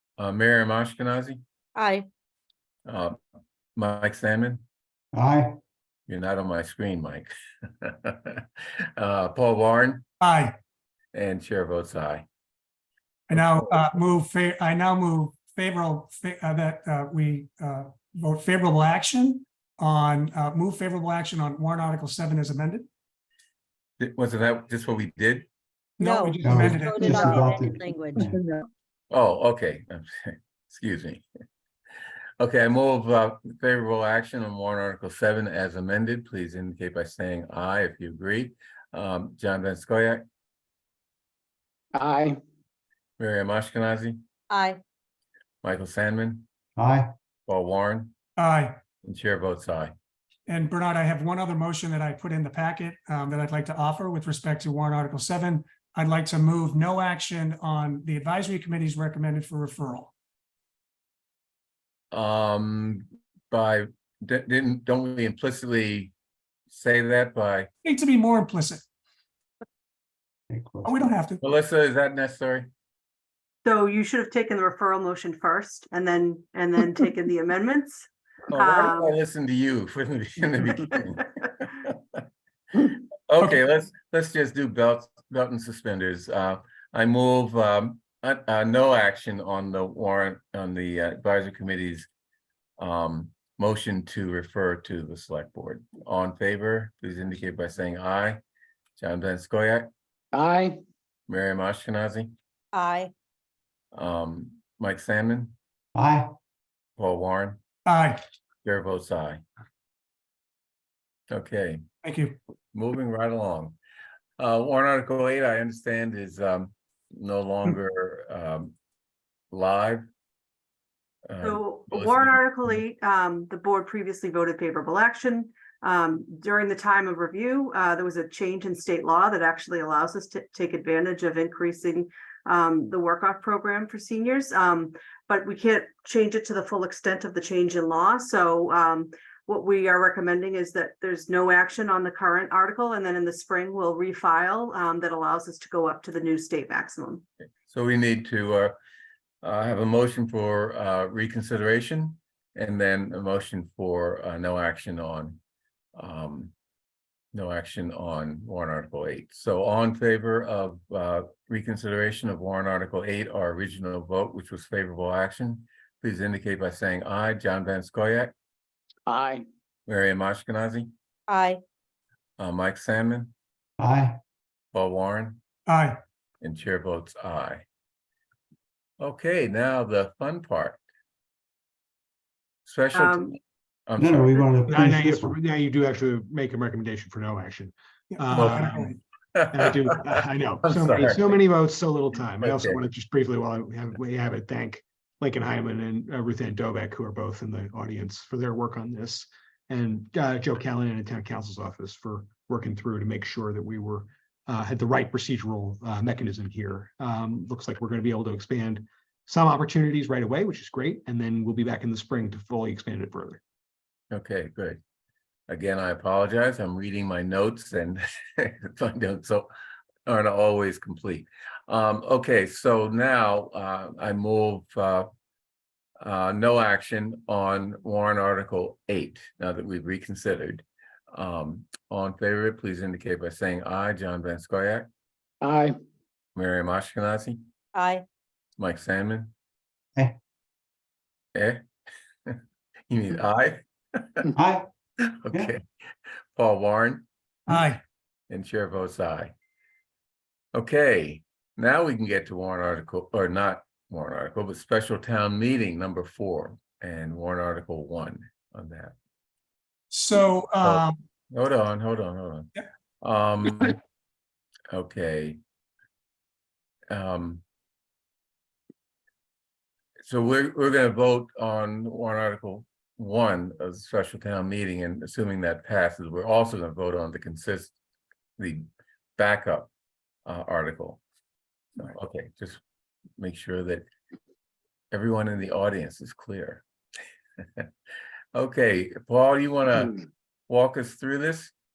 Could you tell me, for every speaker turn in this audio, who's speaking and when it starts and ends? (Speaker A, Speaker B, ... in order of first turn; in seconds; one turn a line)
Speaker A: 0.2-1.4
Speaker B: 1.8-2.0
Speaker A: 2.9-3.1
Speaker A: 3.8-4.6
Speaker C: 5.1-5.5
Speaker A: 6.1-7.3
Speaker A: 7.8-8.4
Speaker A: 9.0-10.0
Speaker D: 10.2-10.6
Speaker A: 11.1-12.2
Speaker D: 13.3-22.9
Speaker A: 13.3-13.7
Speaker A: 24.0-25.5
Speaker D: 26.0-27.5
Speaker B: 26.0-28.2
Speaker C: 26.4-28.4
Speaker E: 28.2-28.6
Speaker A: 29.1-31.2
Speaker A: 32.4-40.2
Speaker E: 41.9-42.4
Speaker A: 43.2-44.2
Speaker B: 44.5-44.8
Speaker A: 45.6-46.5
Speaker C: 46.8-47.1
Speaker A: 47.5-48.1
Speaker D: 48.4-48.8
Speaker A: 49.0-49.9
Speaker D: 50.5-60.1
Speaker A: 62.1-66.1
Speaker A: 66.7-67.7
Speaker D: 67.8-68.8
Speaker C: 70.5-71.1
Speaker D: 70.8-71.4
Speaker A: 71.4-72.7
Speaker F: 73.6-79.2
Speaker A: 78.5-82.2
Speaker A: 82.8-92.1
Speaker A: 92.8-98.4
Speaker A: 99.0-99.9
Speaker E: 100.3-100.8
Speaker A: 101.3-102.3
Speaker B: 102.7-103.1
Speaker A: 103.9-105.5
Speaker C: 105.9-106.3
Speaker A: 107.0-107.6
Speaker D: 107.8-108.2
Speaker A: 108.6-109.4
Speaker A: 111.3-111.8
Speaker D: 112.0-112.4
Speaker A: 112.7-113.8
Speaker A: 114.4-118.7
Speaker A: 119.5-120.0
Speaker A: 121.3-122.7
Speaker F: 121.4-147.2
Speaker A: 147.7-148.7
Speaker A: 149.4-155.4
Speaker A: 155.9-156.5
Speaker A: 157.3-168.3
Speaker E: 169.1-169.4
Speaker A: 169.9-170.9
Speaker B: 171.3-171.6
Speaker A: 172.4-173.3
Speaker C: 173.8-174.2
Speaker A: 174.7-175.4
Speaker D: 175.7-176.0
Speaker A: 176.4-177.6
Speaker A: 179.0-180.8
Speaker A: 182.7-183.3
Speaker F: 182.9-183.3
Speaker A: 183.9-184.7
Speaker C: 184.0-185.3
Speaker G: 184.7-188.9
Speaker D: 188.1-189.0
Speaker A: 188.3-190.1
Speaker G: 189.5-213.4
Speaker A: 190.6-191.4
Speaker A: 192.4-192.8
Speaker A: 214.1-214.8
Speaker A: 215.5-219.5
Speaker A: 220.1-225.1
Speaker A: 226.0-234.8
Speaker E: 235.4-235.8
Speaker A: 236.3-237.4
Speaker B: 237.7-238.0
Speaker A: 238.6-239.3
Speaker A: 241.3-241.6
Speaker A: 242.9-244.2
Speaker C: 244.3-244.7
Speaker A: 245.0-245.6
Speaker A: 246.3-247.0
Speaker D: 247.5-247.8
Speaker A: 248.3-249.3
Speaker A: 250.5-258.9
Speaker D: 259.9-261.0
Speaker A: 260.6-262.5
Speaker A: 263.0-263.8
Speaker A: 264.7-265.4
Speaker A: 266.9-267.4
Speaker A: 270.0-277.7
Speaker A: 278.4-278.6
Speaker A: 279.2-279.7
Speaker A: 280.2-281.0
Speaker A: 281.8-282.6
Speaker A: 283.2-283.9
Speaker A: 284.9-286.6
Speaker A: 288.3-290.0
Speaker A: 290.5-291.5